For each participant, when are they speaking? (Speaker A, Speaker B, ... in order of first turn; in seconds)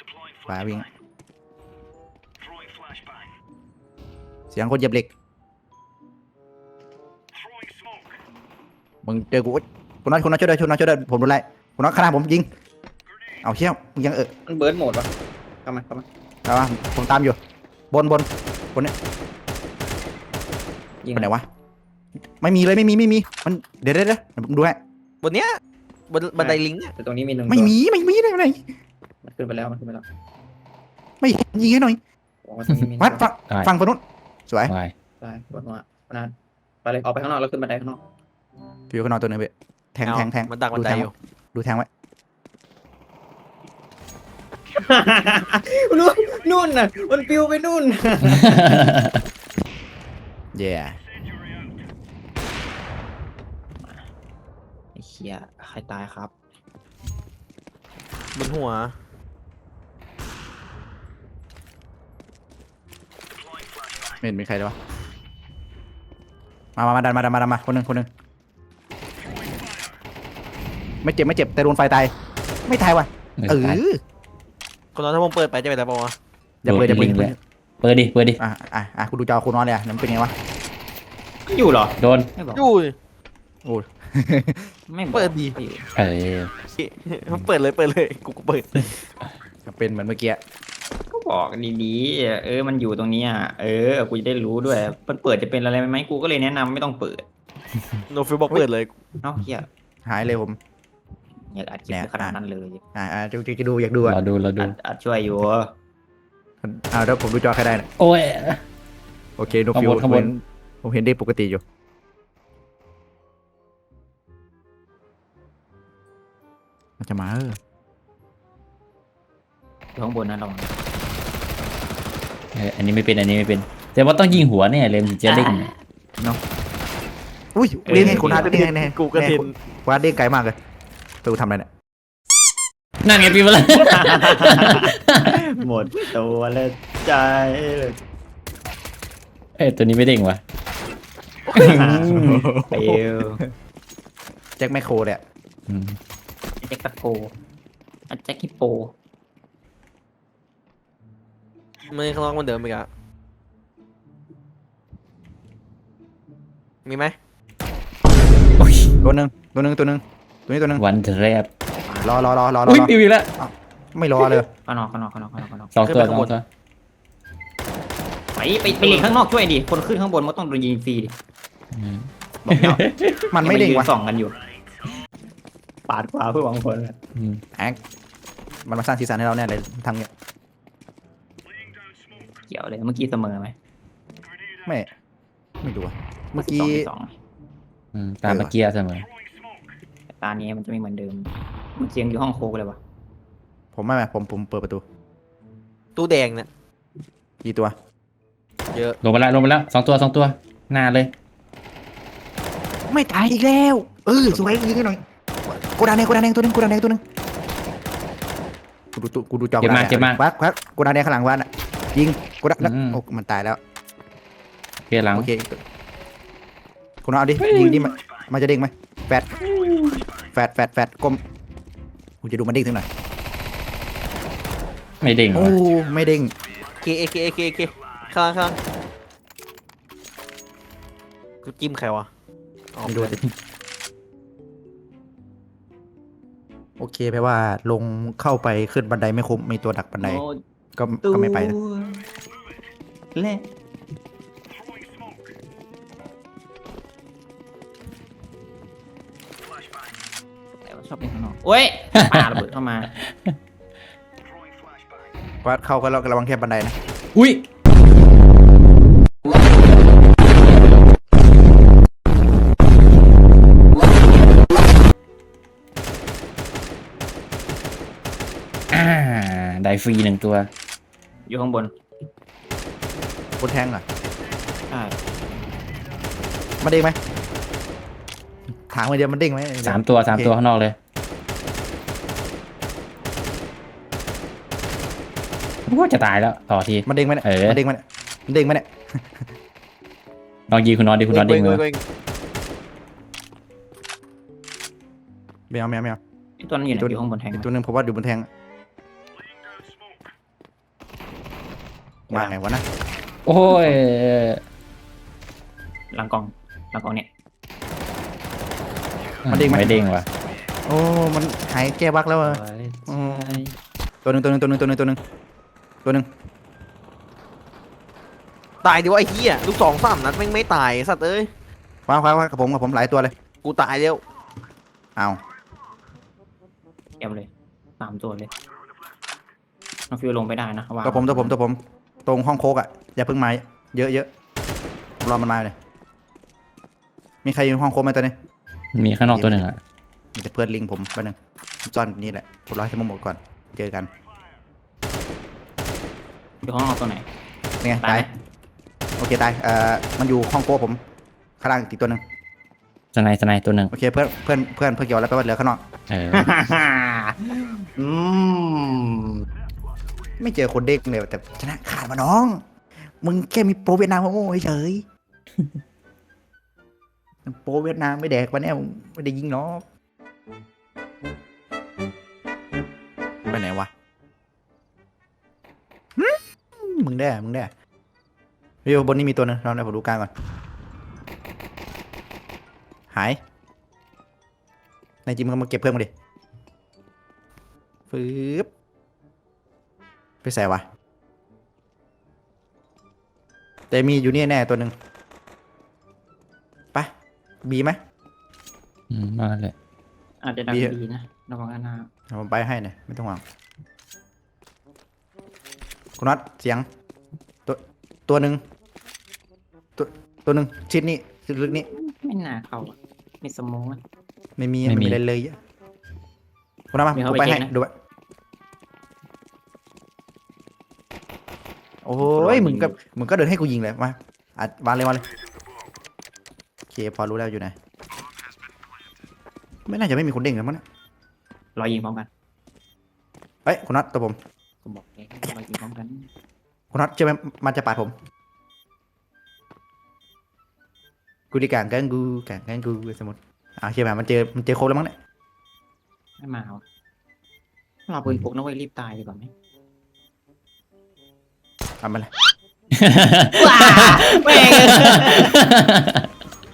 Speaker A: 0.5-0.9, 4.5-5.1, 9.0-12.5, 13.4-14.3, 16.4-17.4, 17.9-18.9, 21.1-21.4, 22.4-24.8, 27.5-28.6, 31.2-32.0, 33.0-34.7, 38.9-41.9, 50.5-51.0, 64.2-64.8, 66.8-68.1, 71.0-72.1, 72.7-74.0, 76.6-77.4, 78.4-80.3, 83.6-84.7, 89.7-90.4, 100.0-100.6, 101.9-102.4, 102.9-104.2, 106.6-107.8, 109.4-111.6, 117.0-117.6, 127.5-130.6, 131.2-131.7, 141.6-143.4, 144.6-145.2, 159.0-160.8, 162.0-164.5, 173.3-173.9, 178.7-180.1, 185.6-186.9, 188.2-188.5, 193.7-194.8, 197.4-197.7, 202.9-207.0, 208.9-213.6, 215.1-215.6, 217.0-219.2, 220.3-221.2, 222.2-222.9, 225.3-226.3, 232.8-233.2, 236.8-240.2, 240.8-241.6, 255.4-256.8, 273.4-273.8, 276.6-277.0, 278.7-280.3, 286.9-289.2, 295.5-296.0, 296.7-298.3, 302.1-302.6, 309.3-309.8, 310.7-313.4, 314.0-315.0, 321.9-323.1, 330.8-334.1, 335.0-335.5, 337.2-338.1, 339.1-339.5, 340.1-343.9, 347.6-348.1, 349.0-350.8, 351.4-352.0, 353.7-355.6, 360.2-362.4, 363.0-364.8, 367.2-369.6, 373.3-373.7, 375.9-377.5, 378.6-380.1, 382.9-383.2, 385.1-385.9, 387.9-388.5, 390.2-390.6, 393.7-394.7, 397.4-397.8, 400.5-400.8, 402.1-403.2, 406.0-406.6, 407.4-408.4, 409.8-411.7, 414.4-415.4, 416.7-417.7, 421.8-425.1, 426.7-427.5, 429.7-430.6, 433.4-434.2, 436.7-437.9, 441.3-444.9, 451.8-452.1
Speaker B: 14.5-15.1, 15.6-16.1, 21.0-21.3, 26.4-27.7, 29.2-30.0, 32.4-33.2, 35.2-36.3, 36.8-38.0, 44.7-48.7, 53.8-54.1, 54.9-56.3, 81.5-82.7, 84.9-85.8, 91.1-97.2, 99.2-99.7, 101.5-102.8, 104.6-105.7, 119.9-120.7, 125.3-125.6, 127.8-128.5, 133.7-138.0, 141.5-143.4, 146.6-147.3, 148.1-148.9, 161.9-162.2, 164.7-165.7, 168.3-171.1, 172.5-172.8, 173.4-174.3, 175.9-176.9, 182.5-183.5, 186.4-187.1, 190.1-192.8, 240.0-240.4, 241.0-242.0, 243.1-243.5, 250.6-252.9, 271.3-271.7, 274.7-275.0, 296.4-297.5, 305.9-307.1, 312.2-313.5, 327.0-328.3, 329.9-331.4, 346.4-347.1, 347.8-348.1, 356.1-359.2, 400.2-401.9, 411.7-413.8, 416.9-417.5, 422.0-422.8, 431.6-432.1, 434.6-436.1, 446.2-446.6, 447.9-449.3, 453.4-455.4
Speaker C: 25.2-25.6, 26.1-26.9, 40.0-41.1, 58.3-58.9, 74.9-76.1, 82.5-82.9, 85.1-85.5, 86.7-89.0, 98.1-98.9, 127.9-129.5, 151.9-152.9, 156.8-157.1, 165.8-166.3, 195.9-196.5, 198.7-199.0, 226.8-228.6, 231.4-232.1, 232.7-233.2, 291.1-291.8, 318.6-321.3, 323.4-324.0
Speaker D: 34.7-34.9, 48.2-49.1, 73.4-73.8, 76.6-78.4, 82.0-82.3, 85.9-86.5, 104.0-104.8, 108.0-108.6, 109.7-110.3, 122.5-125.7, 133.0-135.3, 139.6-140.4, 141.6-142.2, 145.7-146.0, 158.6-158.9, 160.8-161.5, 162.6-163.3, 165.7-166.4, 171.7-173.2, 177.2-177.4, 187.9-189.1, 199.0-201.1, 209.6-210.2, 212.6-213.0, 214.9-215.3, 217.4-217.9, 219.4-220.0, 225.0-225.6, 252.0-252.3, 257.1-257.4, 268.7-270.5, 279.6-280.8, 285.7-287.6, 290.5-291.6, 303.2-304.4, 309.2-310.1, 338.7-339.6, 352.9-353.7, 355.9-356.3, 398.9-399.5, 414.6-415.0, 452.8-456.0